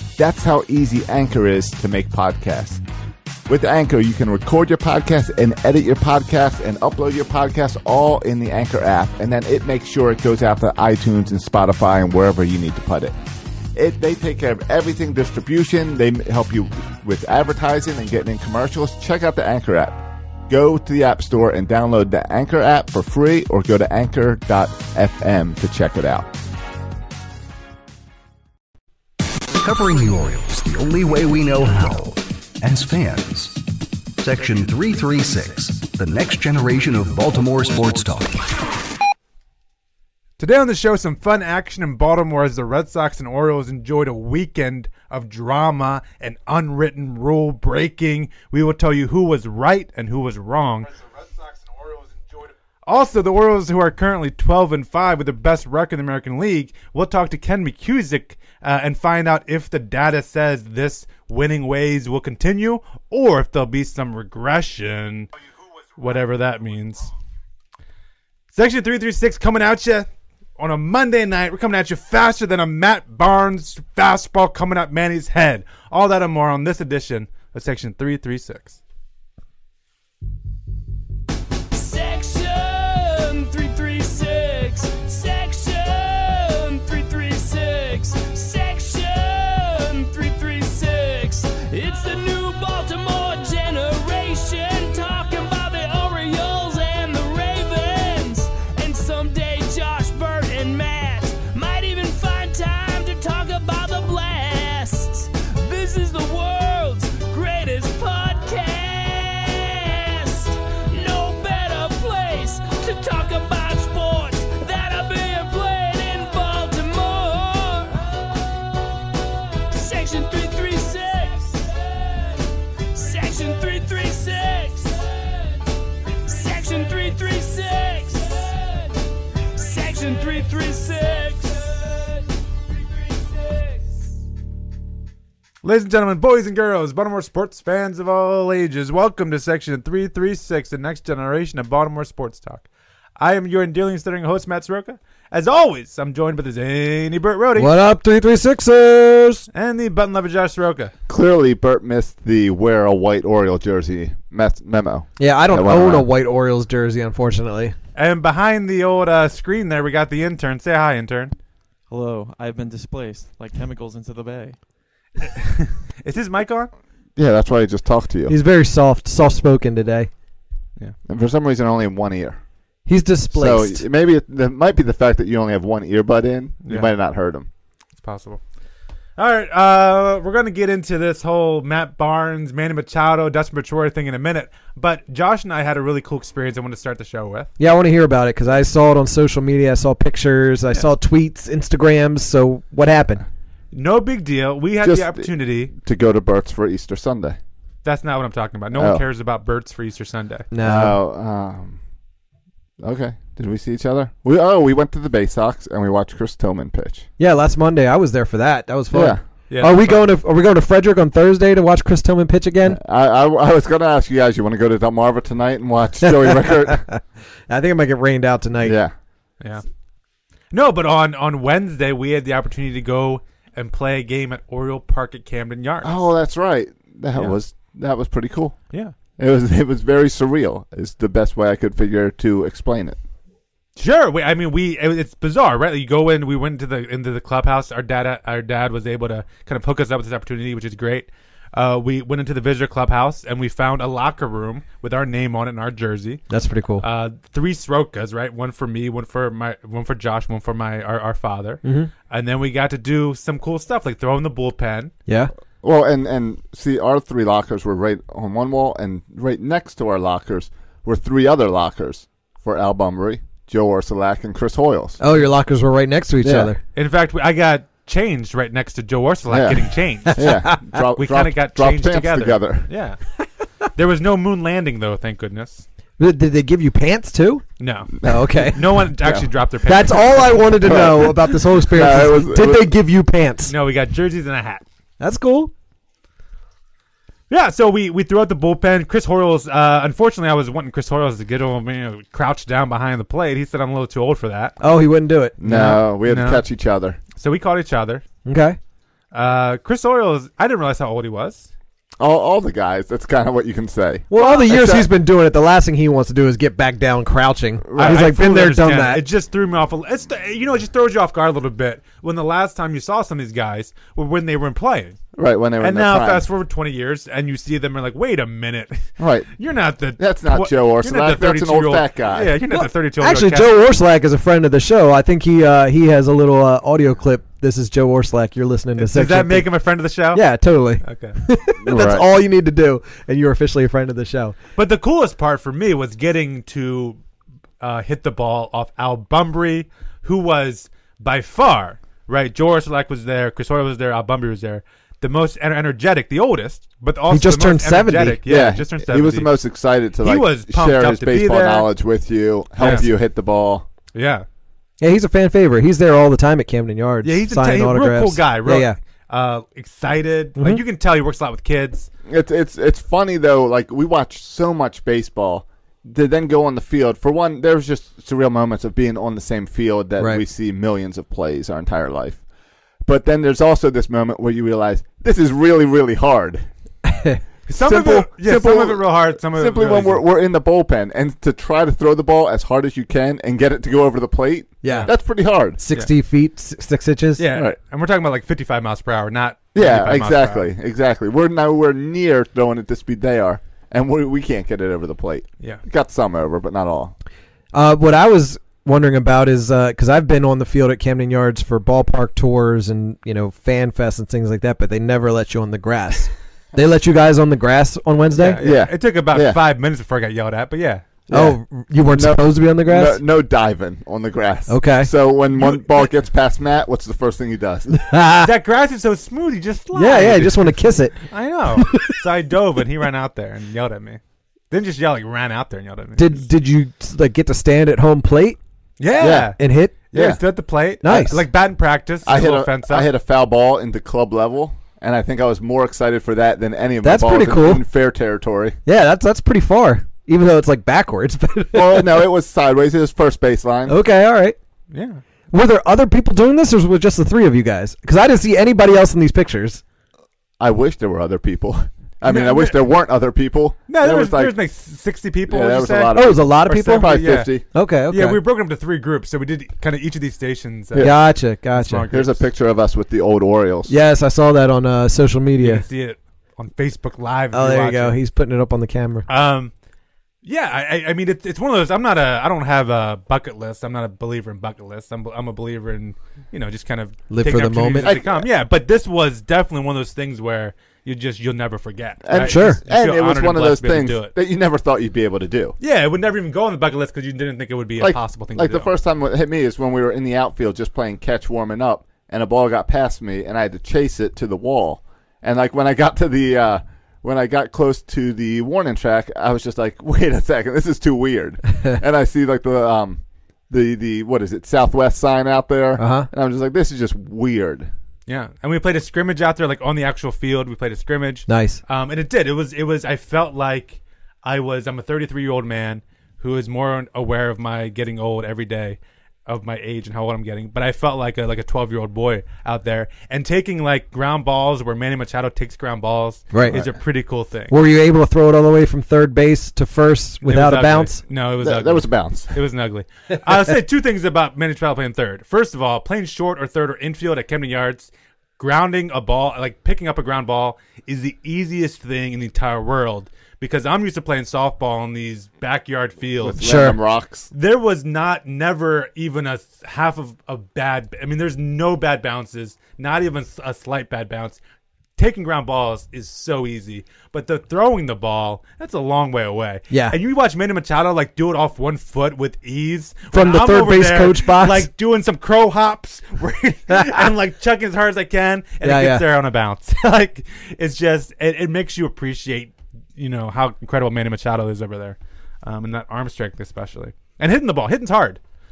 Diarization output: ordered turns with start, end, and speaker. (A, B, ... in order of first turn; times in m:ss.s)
0:00.2-0:02.8 A
0:03.5-0:13.1 A
0:13.8-0:26.3 A
0:29.5-0:33.7 B
0:34.2-0:38.5 B
0:40.4-0:51.0 C
0:52.9-1:05.3 C
1:06.0-1:07.1 C
1:08.5-1:18.8 C
1:21.7-1:58.0 D
1:59.7-2:12.3 D
2:12.9-2:14.0 D
2:15.6-2:22.6 C
2:23.2-2:27.7 C
2:27.6-2:29.5 E
2:29.5-2:30.9 C
2:31.1-2:36.1 A
2:35.2-2:37.8 E
2:38.0-2:41.3 C
2:41.9-2:44.6 F
2:45.2-2:46.7 C
2:47.2-2:48.4 A
2:48.3-2:50.1 E
2:51.1-2:52.4 A
2:52.9-2:53.8 E
2:53.3-2:57.5 A
2:58.0-2:58.4 C
2:59.2-3:07.5 C
3:07.6-3:13.2 E
3:13.7-3:15.7 C
3:14.8-3:17.4 A
3:17.8-3:20.5 C
3:18.7-3:19.0 A
3:20.5-3:21.0 E
3:20.6-3:21.8 A
3:22.8-3:27.1 A
3:27.2-3:32.8 E
3:28.9-3:29.2 A
3:29.5-3:30.0 C
3:32.7-3:36.9 A
3:36.7-3:38.8 E
3:38.6-3:38.9 A
3:40.5-3:46.1 C
3:45.8-3:48.6 A
3:49.2-3:53.0 A
3:53.8-4:06.2 C
4:06.3-4:06.8 E
4:06.8-4:14.9 C
4:11.6-4:11.9 E
4:15.6-4:25.0 A
4:25.0-4:26.6 E
4:26.2-4:26.5 A
4:26.8-4:33.0 C
4:29.3-4:32.7 A
4:30.1-4:30.6 E
4:33.8-4:35.6 C
4:36.0-4:37.5 E
4:37.6-4:40.4 C
4:38.0-4:38.7 E
4:39.6-4:43.5 E
4:40.6-4:42.7 A
4:43.5-4:44.6 C
4:45.0-4:45.5 E
4:47.3-4:54.6 C
4:54.6-4:55.8 E
4:55.4-4:57.0 A
4:55.5-4:56.4 C
4:57.2-4:58.0 C
4:58.3-4:58.6 E
4:59.1-5:01.5 C
5:02.0-5:04.9 A
5:04.1-5:09.0 E
5:07.6-5:08.0 A
5:07.8-5:15.0 C
5:15.2-5:16.3 A
5:15.6-5:23.5 C
5:19.0-5:19.3 A
5:20.0-5:22.4 A
5:22.5-5:29.5 E
5:28.8-5:30.2 C
5:30.1-5:34.4 E
5:30.8-5:31.2 C
5:31.6-5:32.1 A
5:34.6-5:37.0 C
5:37.6-5:49.3 C
5:47.1-5:48.2 E
5:48.3-5:53.7 A
5:50.0-5:51.7 C
5:52.6-5:52.9 C
5:53.9-5:54.3 C
5:54.8-5:58.8 E
5:57.0-6:01.9 C
6:00.4-6:00.6 E
6:02.1-6:12.2 A
6:10.0-6:10.2 E
6:12.9-6:16.5 A
6:16.8-6:17.2 E
6:17.5-6:20.0 C
6:17.6-6:25.6 A
6:24.6-6:24.9 E
6:24.7-6:24.9 C
6:25.6-6:27.2 E
6:27.2-6:30.5 C
6:29.5-6:36.9 A
6:37.5-6:48.4 E
6:48.2-6:50.9 C
6:48.4-6:49.4 A
6:51.1-6:51.4 A
6:51.1-6:53.0 E
6:51.9-6:57.8 A
6:54.5-6:54.9 E
6:55.3-6:55.9 C
6:57.7-6:58.3 E
6:58.2-7:00.6 C
6:59.7-7:02.0 E
7:01.1-7:04.0 C
7:04.5-7:06.2 C
7:06.0-7:08.4 E
7:08.8-7:09.4 C
7:09.0-7:09.3 A
7:09.4-7:09.8 E
7:09.9-7:12.9 C
7:09.9-7:10.2 A
7:10.8-7:11.2 E
7:12.1-7:18.6 A
7:16.8-7:17.6 E
7:18.7-7:22.1 E
7:21.5-7:23.8 A
7:23.7-7:24.4 E
7:24.7-7:25.0 C
7:25.3-7:29.6 E
7:30.4-7:34.3 A
7:32.0-7:32.6 C
7:33.7-7:37.3 C
7:35.3-7:37.4 A
7:36.0-7:38.2 E
7:37.9-7:40.9 C
7:40.8-7:41.8 E
7:41.5-7:42.2 C
7:41.9-7:43.7 A
7:43.7-7:45.7 E
7:45.4-7:48.0 C
7:47.3-7:49.1 E
7:49.1-7:49.5 C
7:50.2-8:04.1 C
7:57.1-7:58.0 E
7:57.8-7:58.2 A
8:02.0-8:05.6 A
8:02.1-8:02.6 E
8:05.6-8:08.7 C
8:07.8-8:27.7 A
8:25.8-8:26.1 E
8:28.1-8:47.6 C
8:31.3-8:31.6 E
8:46.3-8:46.6 E
8:47.5-8:51.0 E
8:50.2-9:06.4 C
8:51.4-8:52.4 A
9:06.2-9:07.3 A
9:06.4-9:06.8 E
9:07.3-9:14.4 C
9:15.0-9:38.2 C
9:19.7-9:20.0 E
9:23.1-9:24.7 E
9:26.7-9:27.1 E
9:28.6-9:29.1 E